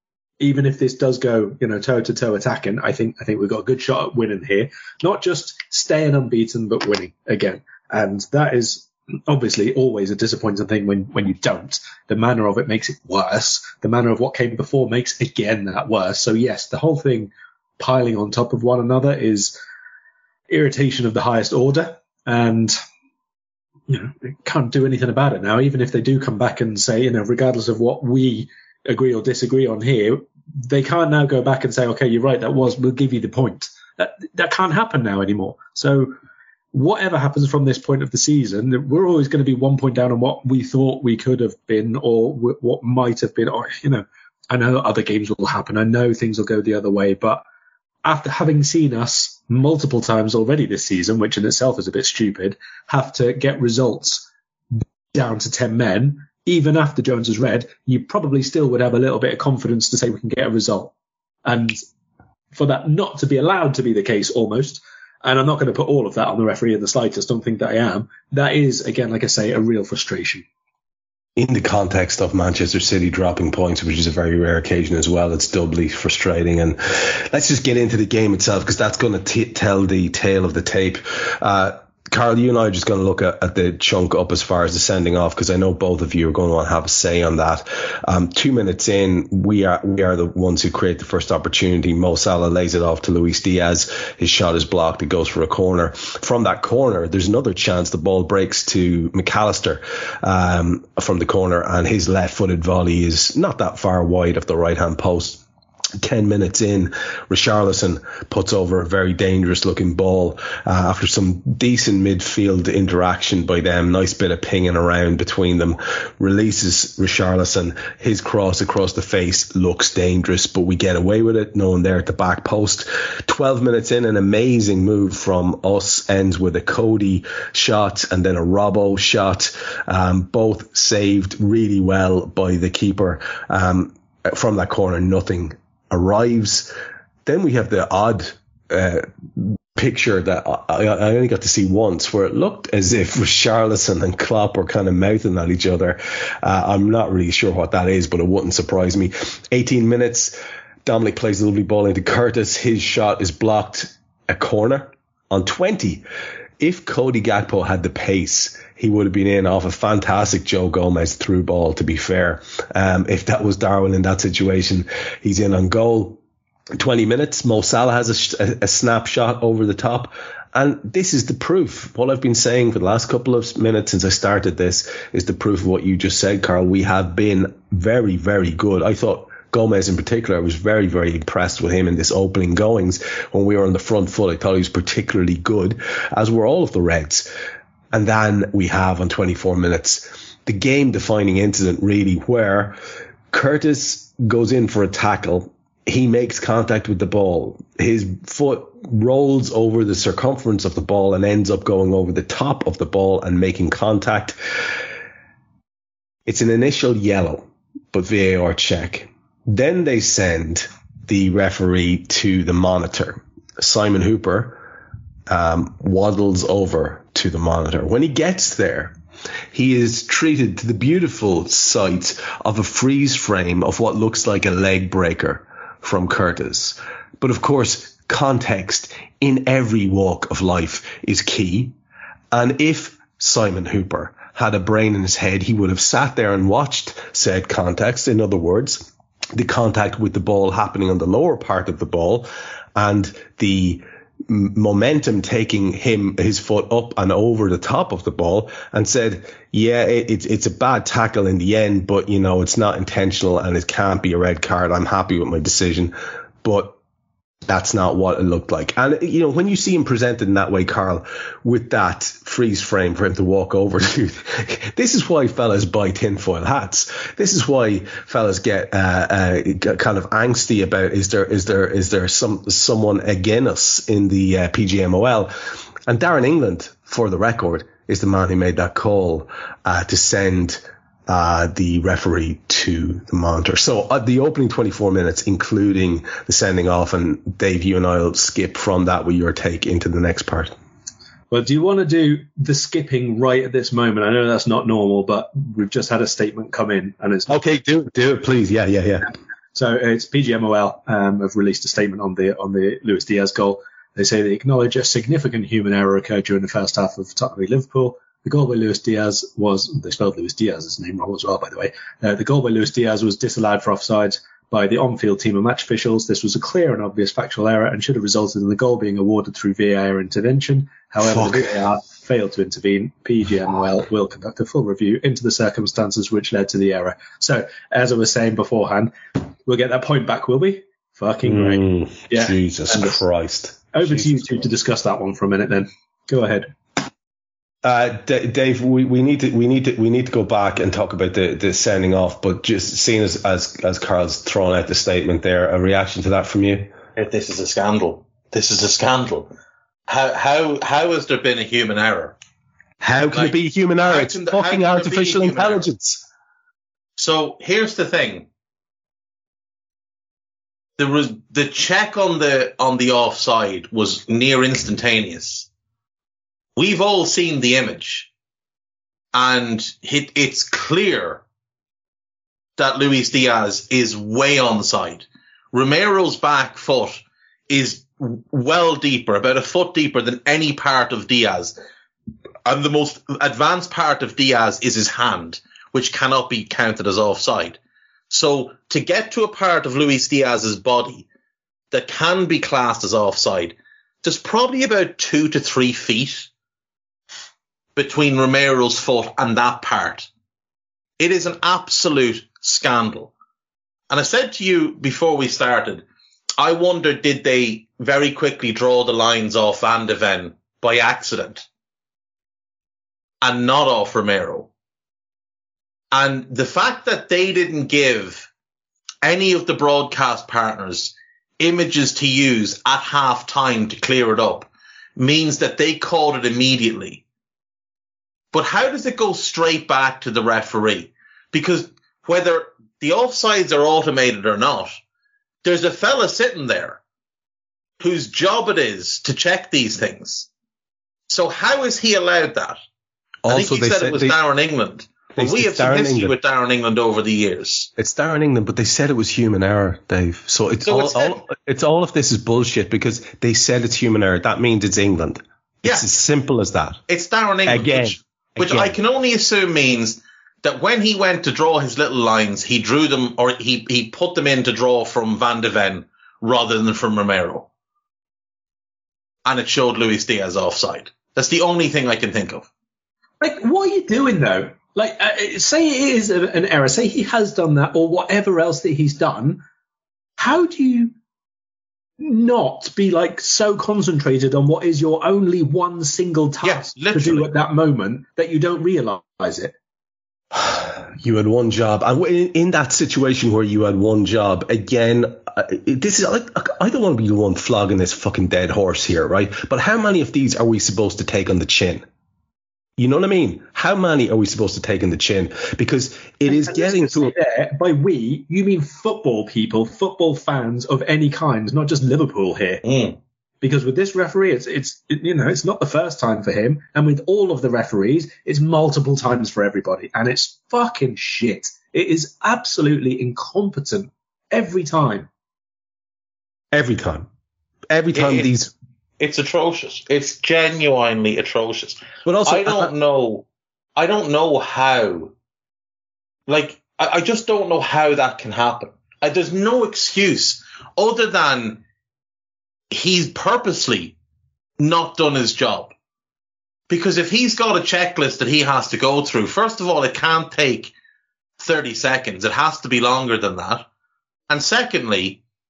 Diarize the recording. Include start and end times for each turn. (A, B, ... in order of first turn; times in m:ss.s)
0:00.4-0:19.6 A
0:20.5-0:22.7 A
0:23.9-0:36.1 A
0:36.7-0:47.4 A
0:48.0-1:00.9 A
1:01.4-1:01.8 A
1:02.5-1:10.4 A
1:11.4-1:45.4 B
1:46.0-2:16.7 B
2:17.2-2:36.0 B
2:36.6-2:46.2 B
2:46.8-3:07.3 B
3:07.9-3:12.8 B
3:13.3-3:24.4 B
3:26.2-3:34.6 B
3:35.3-3:38.9 B
3:39.5-3:51.8 B
3:52.3-4:16.8 B
4:17.5-4:35.3 B
4:35.9-4:50.5 B
4:51.3-4:57.4 A
4:57.3-4:59.1 B
4:59.5-5:33.0 A
5:21.0-5:21.6 B
5:31.2-5:34.4 B
5:33.7-5:36.5 A
5:37.6-5:46.7 B
5:47.0-5:49.3 C
5:49.9-5:52.1 C
5:52.8-5:56.0 B
5:53.1-5:55.7 C
5:57.0-5:58.3 C
6:00.8-6:05.5 C
6:06.6-6:08.1 C
6:09.1-6:11.2 C
6:12.6-6:21.5 C
6:22.4-6:27.6 C
6:28.1-6:31.0 C
6:31.7-6:36.3 C
6:37.8-6:40.1 C
6:41.0-6:43.1 C
6:43.9-6:45.8 C
6:46.4-6:51.4 C
6:53.2-6:54.5 C
6:55.9-6:58.3 C
6:59.0-7:07.0 C
7:08.3-7:14.8 C
7:15.4-7:16.8 C
7:17.8-7:20.3 C
7:21.1-7:22.6 C
7:23.2-7:24.2 B
7:23.3-7:27.7 C
7:25.2-7:26.1 B
7:27.8-7:36.8 B
7:30.6-7:31.2 C
7:36.9-7:47.5 C
7:37.5-7:38.8 B
7:49.2-7:52.5 C
7:53.2-7:59.4 A
8:00.2-8:00.9 A
8:02.0-8:09.5 A
8:06.4-8:07.3 C
8:10.3-8:21.8 B
8:22.8-8:27.1 B
8:26.3-8:32.6 A
8:32.6-8:33.0 C
8:33.4-8:45.1 A
8:46.5-8:47.1 B
8:47.7-8:48.5 B
8:47.9-8:48.3 C
8:49.0-8:55.1 C
8:52.0-8:52.7 B
8:56.3-9:01.6 C
9:02.7-9:04.0 C
9:04.6-9:05.7 C
9:06.7-9:10.7 C
9:11.4-9:13.6 C
9:14.3-9:15.2 C